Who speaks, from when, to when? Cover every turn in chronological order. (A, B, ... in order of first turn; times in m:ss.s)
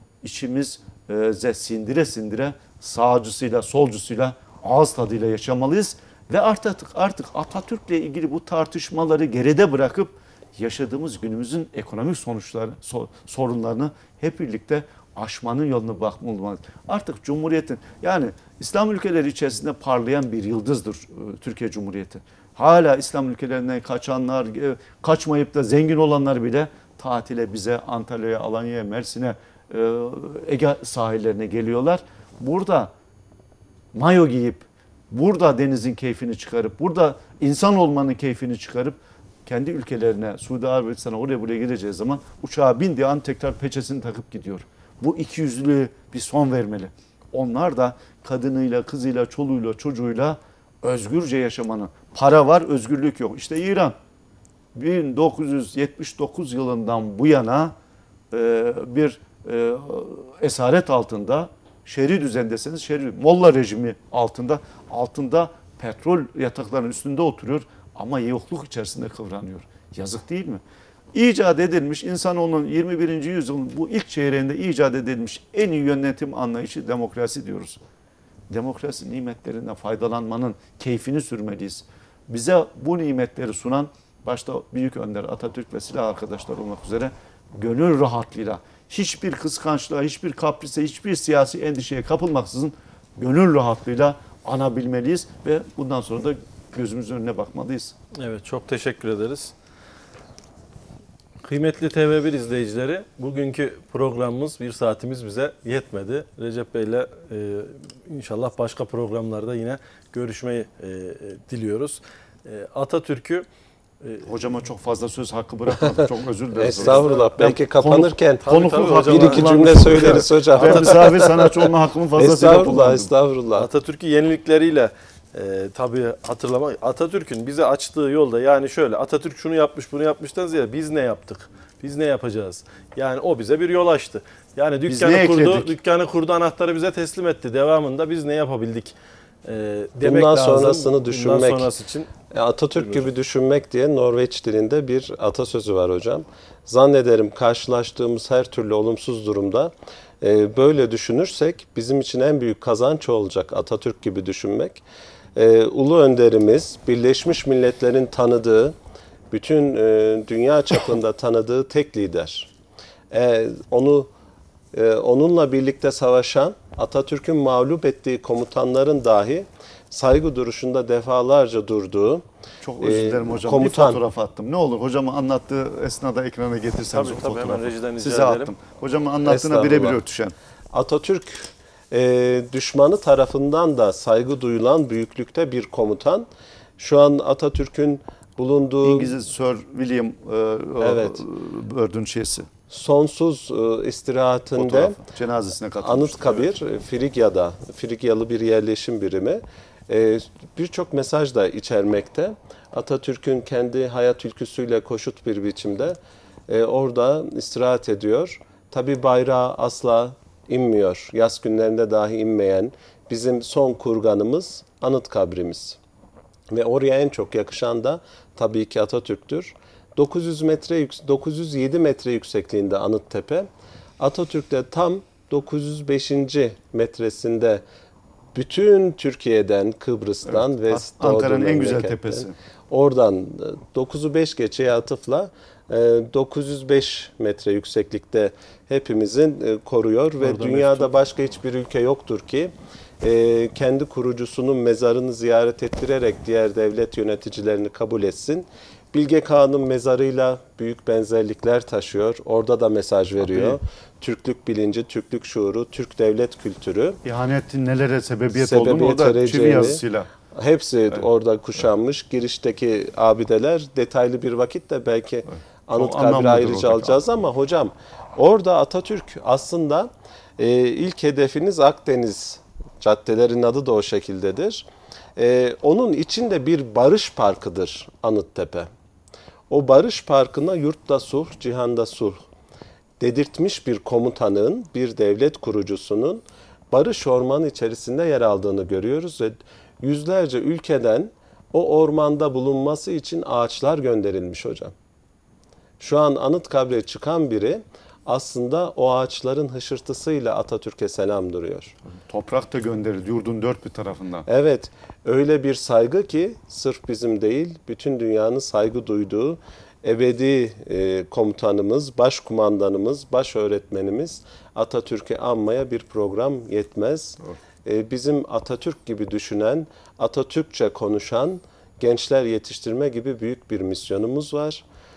0:00.2-0:32.9 A
0:33.9-0:54.0 A
0:54.8-0:57.7 A
0:58.3-1:10.6 A
1:11.1-1:17.8 A
1:18.5-1:38.0 A
1:38.2-1:39.5 B
1:41.4-1:53.5 B
1:54.0-1:54.3 B
1:54.2-2:03.1 A
1:56.6-2:01.6 C
1:56.8-1:57.3 B
1:58.4-2:01.4 B
2:02.2-2:03.7 C
2:03.6-2:22.1 B
2:14.9-2:15.8 A
2:20.0-2:21.7 C
2:22.3-2:34.8 C
2:22.8-2:23.1 B
2:35.4-2:38.8 C
2:39.3-2:42.5 C
2:43.1-2:44.1 C
2:44.7-2:52.2 C
2:52.6-3:00.4 A
2:52.8-2:54.0 C
2:56.9-2:58.5 B
2:59.2-3:00.0 C
3:00.7-3:09.2 C
3:08.8-3:12.5 A
3:10.8-3:11.2 C
3:12.7-3:15.0 C
3:14.6-3:16.6 A
3:15.8-3:35.8 C
3:36.5-3:47.6 C
3:48.3-4:17.0 C
3:50.3-3:52.4 A
4:00.2-4:00.9 B
4:13.2-4:13.6 A
4:17.0-4:20.1 A
4:18.3-4:38.7 C
4:25.3-4:27.0 A
4:39.5-4:42.2 C
4:43.0-4:54.7 C
4:55.8-5:01.8 C
5:02.0-5:04.3 A
5:04.3-5:24.6 C